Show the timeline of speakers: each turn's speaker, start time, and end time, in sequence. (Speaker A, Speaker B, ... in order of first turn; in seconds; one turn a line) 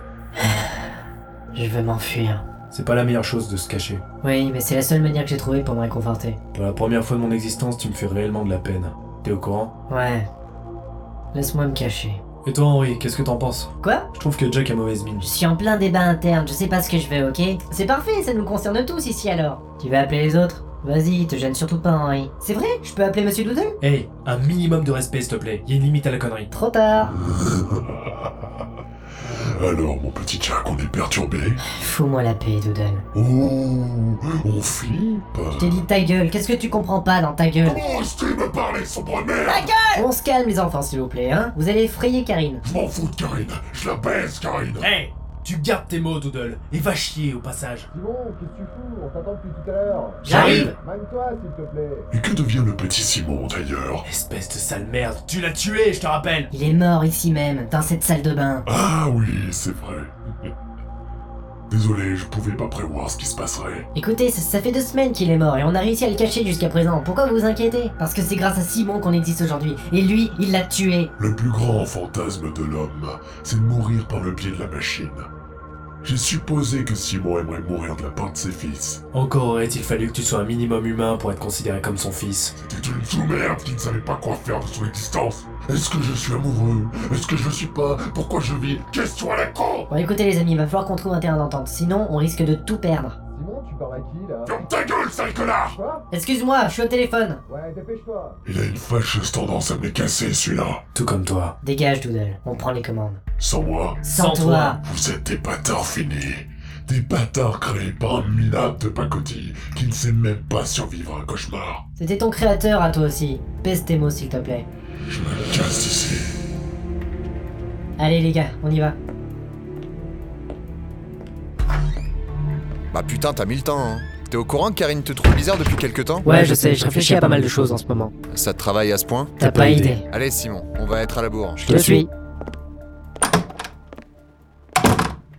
Speaker A: 0.4-0.9
Speaker A: 1.5-2.5
Speaker B: 2.7-4.0
Speaker A: 4.2-6.4
Speaker B: 6.5-9.7
Speaker A: 9.9-10.3
Speaker A: 11.3-12.2
Speaker B: 12.4-15.3
Speaker A: 13.8-14.1
Speaker A: 15.2-23.8
Speaker B: 23.8-26.5
Speaker A: 26.5-27.1
Speaker C: 27.1-28.5
Speaker C: 29.2-31.6
Speaker A: 31.7-33.0
Speaker C: 33.1-35.9
Speaker A: 35.6-37.9
Speaker C: 37.6-39.8
Speaker A: 39.9-42.6
Speaker C: 42.6-44.9
Speaker B: 44.8-47.9
Speaker D: 47.9-52.1
Speaker A: 50.2-50.7
Speaker B: 50.3-50.7
Speaker C: 52.1-54.0
Speaker B: 54.0-56.5
Speaker A: 56.5-58.6
Speaker C: 58.6-60.5
Speaker C: 61.7-63.9
Speaker A: 64.0-71.1
Speaker C: 71.2-75.3
Speaker C: 76.0-79.0
Speaker B: 79.1-82.5
Speaker C: 82.6-89.9
Speaker A: 89.9-93.2
Speaker D: 93.3-94.7
Speaker C: 94.5-95.8
Speaker D: 95.7-96.1
Speaker A: 96.1-97.4
Speaker D: 97.5-98.4
Speaker C: 98.5-100.8
Speaker B: 100.9-101.5
Speaker A: 101.6-103.2
Speaker C: 103.4-104.0
Speaker A: 104.0-104.8
Speaker B: 104.2-104.8
Speaker C: 104.8-111.8
Speaker A: 112.0-114.7
Speaker C: 115.1-116.3
Speaker A: 118.0-119.0
Speaker E: 122.9-126.3
Speaker B: 126.2-128.1
Speaker A: 126.2-128.1
Speaker E: 128.3-129.4
Speaker B: 129.4-130.0
Speaker A: 129.4-130.1
Speaker E: 130.1-131.7
Speaker B: 131.6-132.1
Speaker A: 131.7-132.1